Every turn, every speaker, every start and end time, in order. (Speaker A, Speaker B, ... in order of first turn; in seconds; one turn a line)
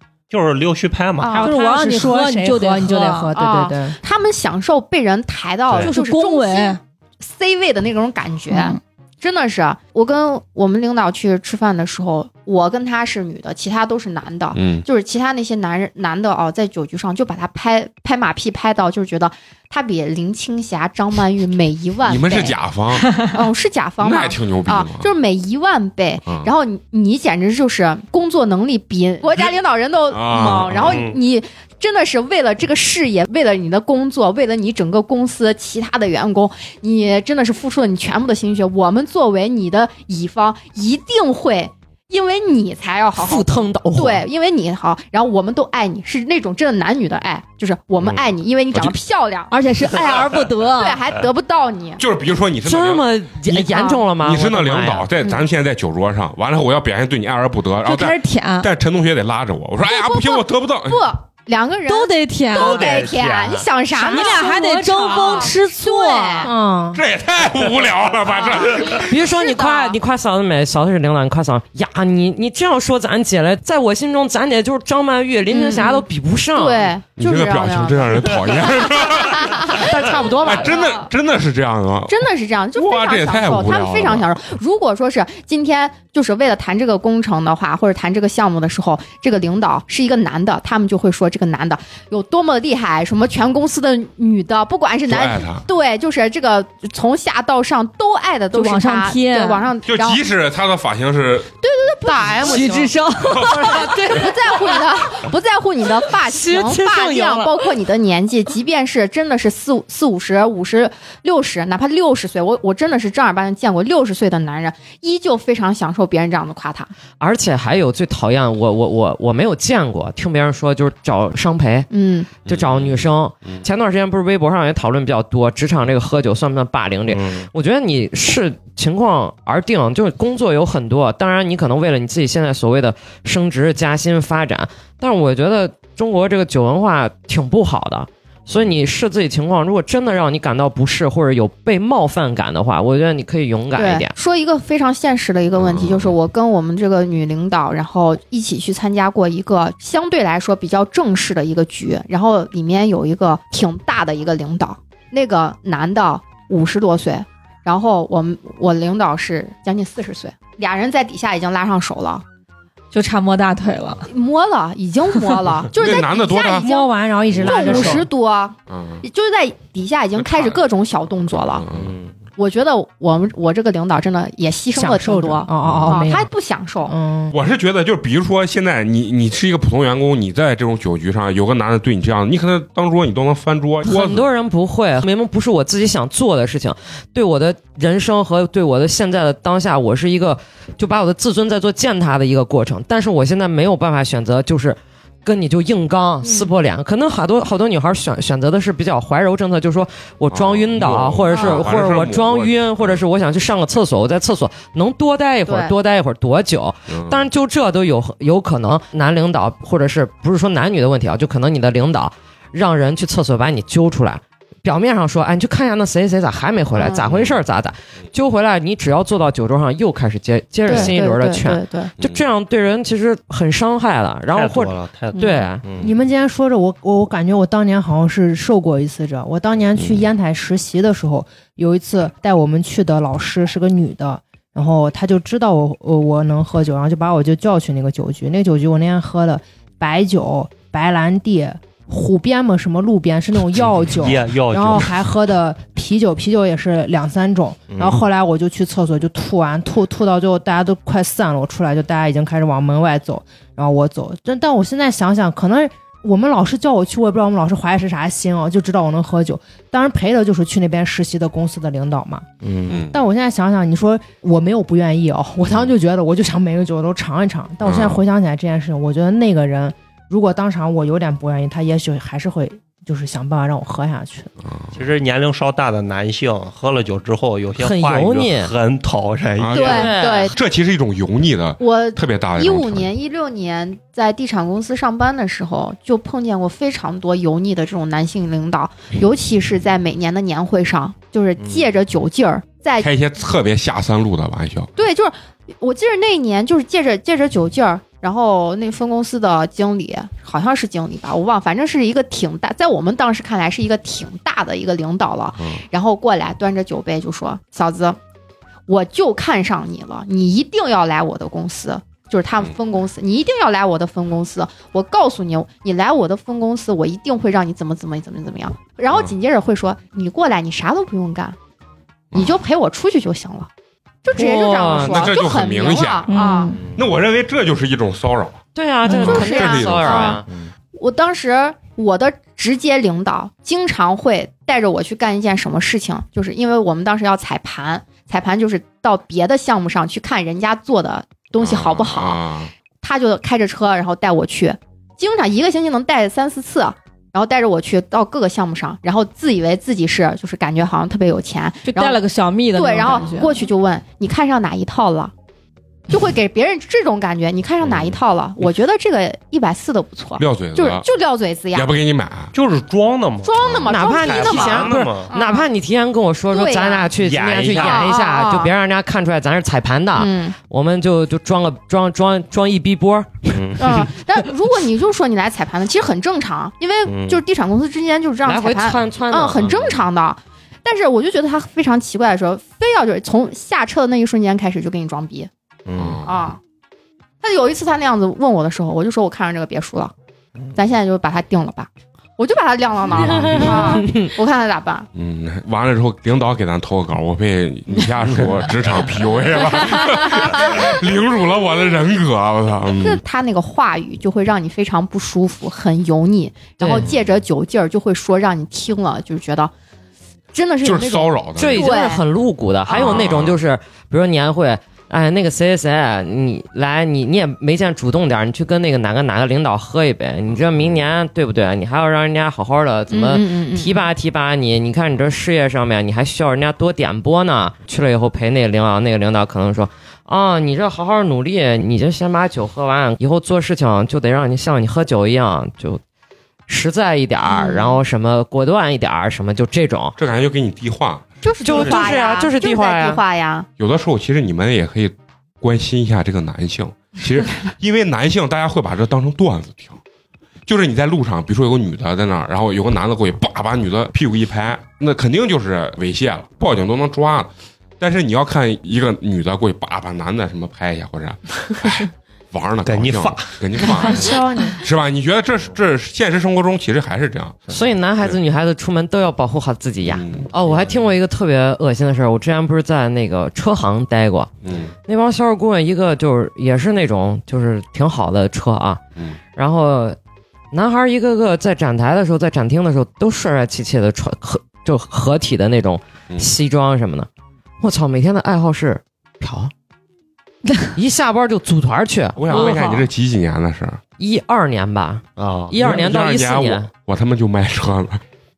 Speaker A: 0.3-1.5
Speaker B: 1.2-1.5
Speaker C: 1.3-4.0
Speaker D: 1.4-3.3
Speaker B: 3.3-22.6
Speaker D: 5.8-6.8
Speaker D: 8.5-8.8
Speaker E: 14.5-14.8
Speaker E: 22.0-23.1
Speaker B: 23.1-52.0
Speaker E: 24.0-25.1
Speaker E: 26.3-26.5
Speaker E: 29.3-29.6
Speaker E: 30.1-31.1
Speaker A: 30.8-31.1
Speaker F: 43.2-44.2
Speaker D: 49.5-51.0
Speaker E: 52.0-61.0
Speaker F: 52.6-55.1
Speaker B: 53.7-54.0
Speaker D: 57.8-58.7
Speaker B: 59.8-66.5
Speaker D: 61.9-62.9
Speaker A: 62.5-63.7
Speaker D: 63.9-66.5
Speaker C: 64.1-65.2
Speaker C: 66.4-67.0
Speaker E: 66.9-69.1
Speaker B: 68.4-68.7
Speaker F: 69.0-76.9
Speaker B: 69.4-70.0
Speaker B: 75.5-81.0
Speaker E: 77.2-82.2
Speaker F: 79.7-80.8
Speaker B: 82.1-100.2
Speaker E: 82.7-84.3
Speaker E: 95.1-95.6
Speaker D: 98.5-99.7
Speaker E: 99.8-101.5
Speaker B: 101.6-116.9
Speaker F: 102.2-102.9
Speaker D: 102.3-104.3
Speaker F: 106.3-107.5
Speaker F: 117.2-121.9
Speaker B: 121.9-122.3
Speaker E: 122.5-123.7
Speaker F: 122.5-144.1
Speaker A: 127.1-127.5
Speaker B: 143.8-162.2
Speaker E: 145.6-146.1
Speaker D: 162.9-164.1
Speaker B: 164.1-171.6
Speaker E: 165.8-166.7
Speaker C: 166.5-168.1
Speaker E: 167.6-167.9
Speaker E: 168.7-169.0
Speaker E: 170.2-170.6
Speaker E: 171.5-172.0
Speaker A: 171.7-172.1
Speaker B: 172.4-176.9
Speaker C: 174.7-176.3
Speaker E: 175.6-176.0
Speaker C: 176.8-177.3
Speaker E: 177.3-184.3
Speaker F: 183.8-225.6
Speaker B: 196.2-196.5
Speaker E: 200.3-203.0
Speaker B: 201.3-201.6
Speaker B: 205.4-205.7
Speaker E: 206.9-207.3
Speaker B: 216.8-217.1
Speaker E: 217.1-217.4
Speaker B: 220.7-221.9
Speaker A: 224.3-225.9
Speaker C: 225.8-262.2
Speaker E: 229.8-230.0
Speaker A: 243.6-245.0
Speaker A: 247.7-248.0
Speaker A: 262.4-262.8
Speaker E: 262.7-263.0
Speaker C: 262.9-274.3
Speaker E: 267.6-268.0
Speaker E: 274.5-274.7
Speaker A: 274.7-279.8
Speaker F: 277.6-278.5
Speaker E: 279.4-282.9
Speaker B: 279.5-280.4
Speaker F: 279.6-280.3
Speaker B: 281.6-292.9
Speaker A: 291.4-291.7
Speaker E: 292.8-294.7
Speaker B: 294.8-308.0
Speaker B: 308.7-321.4
Speaker B: 322.1-323.5
Speaker B: 324.0-326.6
Speaker F: 324.1-325.1
Speaker E: 324.8-326.1
Speaker D: 326.1-326.6
Speaker A: 326.5-326.8
Speaker E: 326.8-330.2
Speaker F: 328.5-330.2
Speaker B: 328.9-330.2
Speaker B: 330.7-342.2
Speaker E: 341.4-342.5
Speaker B: 342.8-352.0
Speaker D: 351.6-353.4
Speaker B: 352.5-355.1
Speaker B: 355.9-361.7
Speaker A: 357.6-357.9
Speaker E: 360.2-360.9
Speaker E: 361.5-362.3
Speaker A: 362.3-365.1
Speaker B: 363.2-365.5
Speaker F: 363.6-373.8
Speaker B: 366.3-366.9
Speaker A: 366.9-367.9
Speaker B: 367.5-368.5
Speaker B: 369.9-370.4
Speaker A: 373.3-373.8
Speaker B: 373.6-385.3
Speaker A: 376.9-377.2
Speaker F: 378.2-379.8
Speaker A: 385.6-386.0
Speaker E: 385.7-386.1
Speaker B: 386.0-386.4
Speaker B: 387.2-389.9
Speaker B: 390.5-394.9
Speaker F: 393.2-394.1
Speaker E: 393.3-393.6
Speaker E: 394.9-403.0
Speaker B: 399.6-400.7
Speaker B: 402.8-409.5
Speaker F: 406.6-406.9
Speaker B: 410.3-412.0
Speaker E: 410.6-411.7
Speaker F: 411.4-435.8
Speaker B: 412.7-413.2
Speaker E: 412.7-413.4
Speaker B: 422.9-423.9
Speaker F: 436.5-439.9
Speaker B: 437.2-437.8
Speaker E: 440.0-441.1
Speaker B: 441.2-443.5
Speaker F: 441.4-443.0
Speaker E: 443.6-449.8
Speaker E: 450.4-467.4
Speaker A: 462.6-463.8
Speaker C: 463.7-464.6
Speaker F: 467.5-474.3
Speaker E: 469.9-470.3
Speaker E: 474.4-474.7
Speaker F: 474.9-478.8
Speaker F: 479.4-480.0
Speaker F: 480.5-487.1
Speaker F: 487.6-489.5
Speaker F: 490.7-492.6
Speaker E: 492.2-493.8
Speaker D: 492.3-492.7
Speaker F: 494.0-496.7
Speaker A: 495.2-495.8
Speaker E: 495.6-498.0